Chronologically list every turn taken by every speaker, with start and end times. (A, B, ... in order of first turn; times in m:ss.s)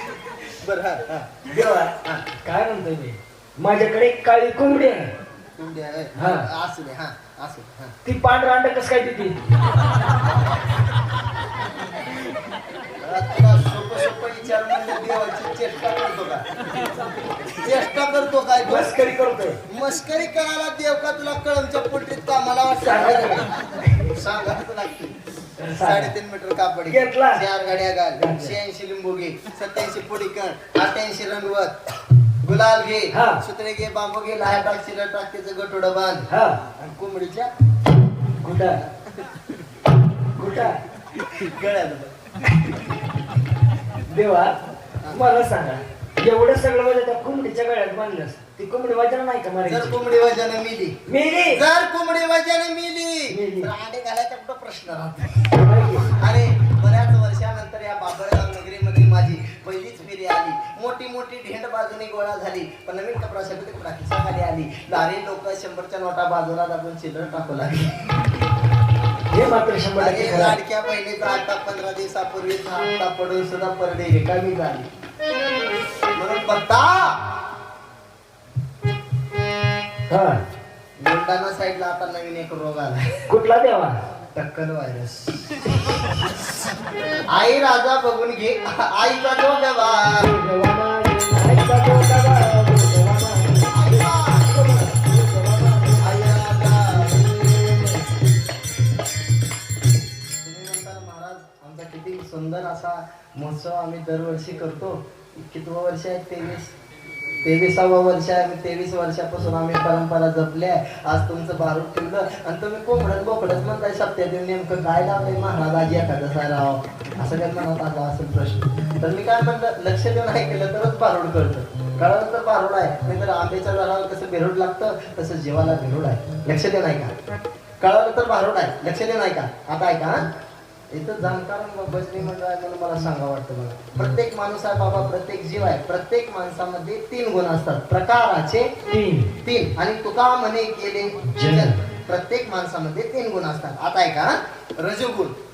0:00.4-0:01.4 A
0:01.4-0:05.1 B
0:05.6-0:07.9 A
0:06.1-0:06.5 B
0:08.0-0:09.5 B
0:13.0-0:16.4 A
0:17.5-0:19.0 A
0:18.6-0:19.6 B
0:19.7-0:31.8 A
0:22.8-0:24.0 B
0:25.6-0:26.1 B
0:26.9-0:27.4 B
0:28.2-0:28.5 B
0:32.4-0:37.5 A
0:33.1-0:33.4 B
0:36.3-0:36.6 B
0:38.4-0:38.8 B
0:40.4-0:40.8 B
0:41.1-0:42.1 A
0:44.1-0:44.6 B
0:45.1-0:50.0 B
0:49.6-0:55.6 A
0:51.1-0:51.6 B
0:53.3-0:53.7 B
0:55.5-0:56.2 B
0:56.1-1:08.1 A
1:09.3-1:10.6 B
1:10.0-1:14.9 A
1:16.2-1:17.2 A
1:20.1-1:20.4 B
1:21.0-1:23.2 A
1:23.3-1:23.9 B
1:24.3-1:26.1 A
1:27.3-1:30.3 A
1:30.2-1:38.1 B
1:33.7-1:34.5 A
1:36.0-1:37.1 A
1:40.4-1:46.7 A
1:47.4-2:07.1 A
2:07.8-2:10.3 A
2:10.9-2:18.7 A
2:18.9-2:19.3 B
2:19.4-2:25.3 A
2:21.2-2:21.8 B